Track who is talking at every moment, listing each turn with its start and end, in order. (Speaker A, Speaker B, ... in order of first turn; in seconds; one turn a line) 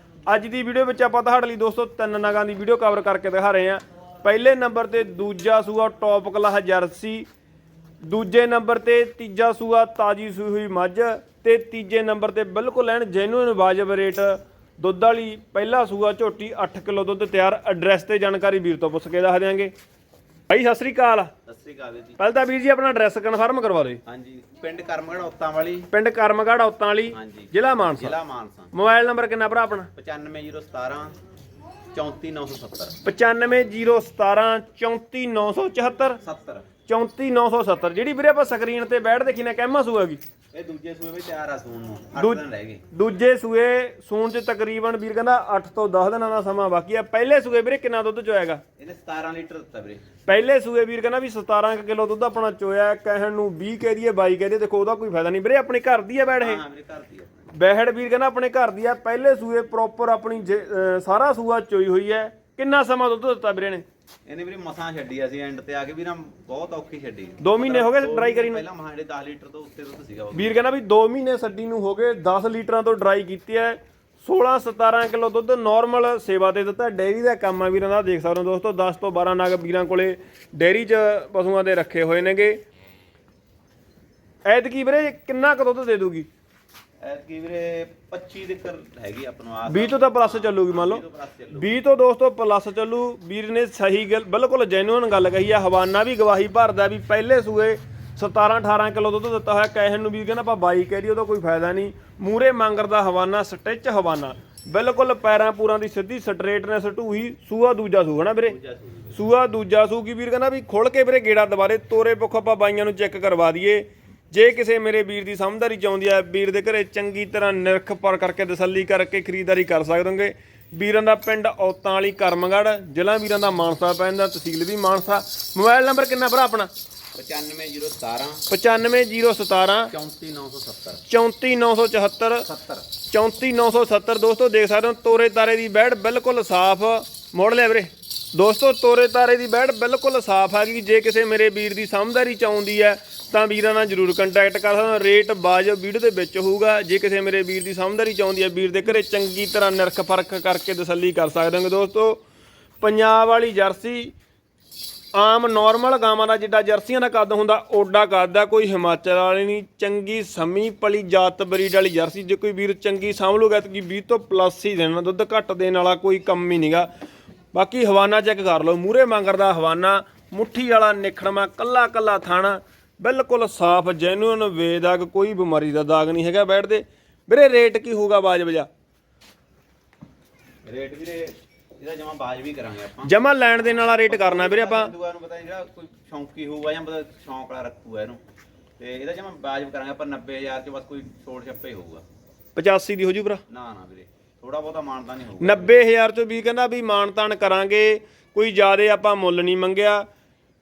Speaker A: 0.3-7.3
Speaker A: 8.0-19.7
Speaker A: 20.5-21.3
Speaker B: 21.5-22.2
Speaker A: 22.2-24.0
Speaker B: 24.1-25.9
Speaker A: 25.9-28.2
Speaker B: 27.1-28.7
Speaker A: 28.7-29.9
Speaker B: 29.9-31.2
Speaker B: 31.9-33.0
Speaker A: 33.0-36.2
Speaker B: 36.2-36.7
Speaker A: 36.9-40.2
Speaker B: 40.5-42.9
Speaker A: 42.9-48.6
Speaker B: 48.8-50.0
Speaker A: 50.3-56.6
Speaker B: 56.4-57.5
Speaker A: 57.5-63.8
Speaker B: 64.3-70.5
Speaker A: 67.4-68.6
Speaker A: 70.3-82.6
Speaker A: 84.5-86.3
Speaker B: 87.0-91.7
Speaker A: 89.7-91.0
Speaker A: 91.5-108.6
Speaker B: 108.4-109.2
Speaker A: 109.1-126.7
Speaker B: 127.2-128.5
Speaker A: 128.5-129.9
Speaker B: 129.9-131.0
Speaker A: 131.1-132.5
Speaker B: 132.4-132.9
Speaker A: 133.1-152.2
Speaker A: 152.8-154.1
Speaker A: 155.2-166.9
Speaker A: 167.5-178.7
Speaker B: 180.7-188.2
Speaker A: 183.0-184.9
Speaker B: 188.8-192.0
Speaker A: 192.6-193.4
Speaker B: 193.5-195.8
Speaker A: 195.4-200.1